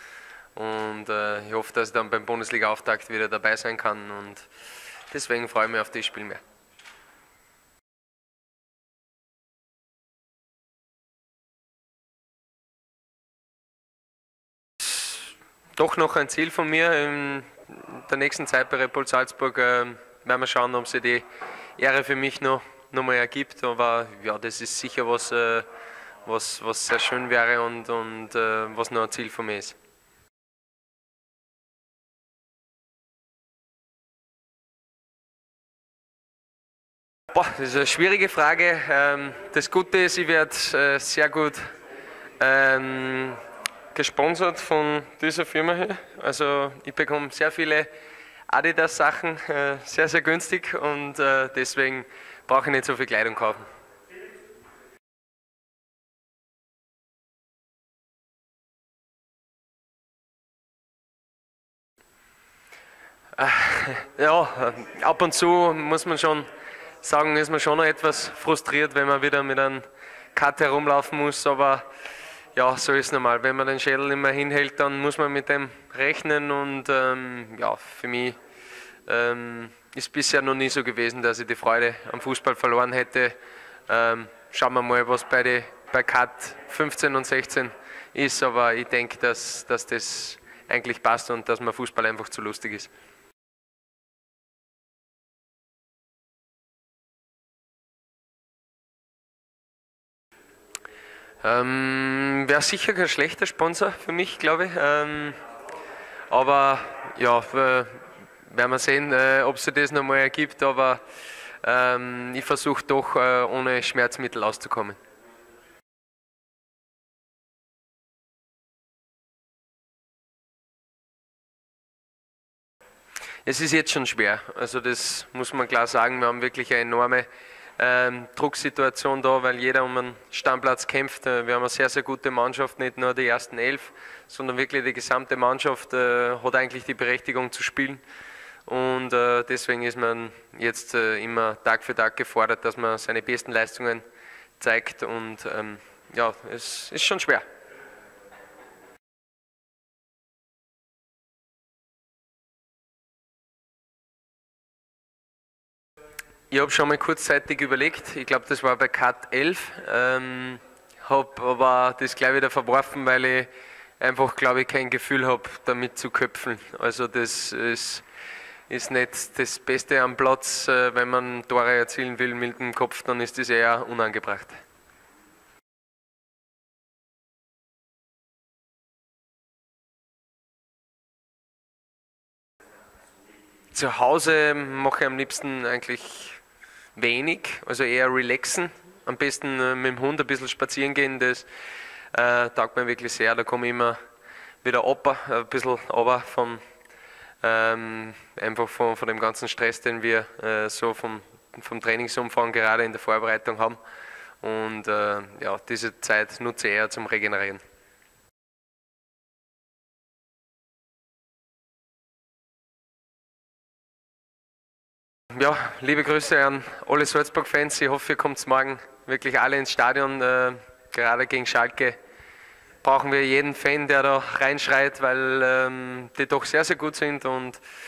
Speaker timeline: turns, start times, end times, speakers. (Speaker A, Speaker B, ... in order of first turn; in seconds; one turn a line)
Speaker A: 0.5-4.5
Speaker A: 5.1-6.4
Speaker A: 14.8-21.2
Speaker A: 21.8-25.6
Speaker A: 26.2-29.7
Speaker A: 37.3-41.6
Speaker A: 42.4-43.4
Speaker A: 43.9-47.9
Speaker A: 48.5-53.6
Speaker A: 63.4-66.5
Speaker A: 67.0-71.8
Speaker A: 72.5-78.3
Speaker A: 79.1-83.3
Speaker A: 83.9-92.9
Speaker A: 101.4-105.4
Speaker A: 106.3-111.0
Speaker A: 111.6-115.0
Speaker A: 123.4-127.3
Speaker A: 127.8-138.0
Speaker A: 138.7-144.0
Speaker A: 144.6-147.4
Speaker A: 156.5-163.5
Speaker A: 164.0-168.0
Speaker A: 168.7-174.6
Speaker A: 183.7-186.4
Speaker A: 186.9-191.4
Speaker A: 192.1-194.0
Speaker A: 194.6-196.6
Speaker A: 197.4-203.8
Speaker A: 204.4-207.6
Speaker A: 215.3-222.0
Speaker A: 222.8-227.6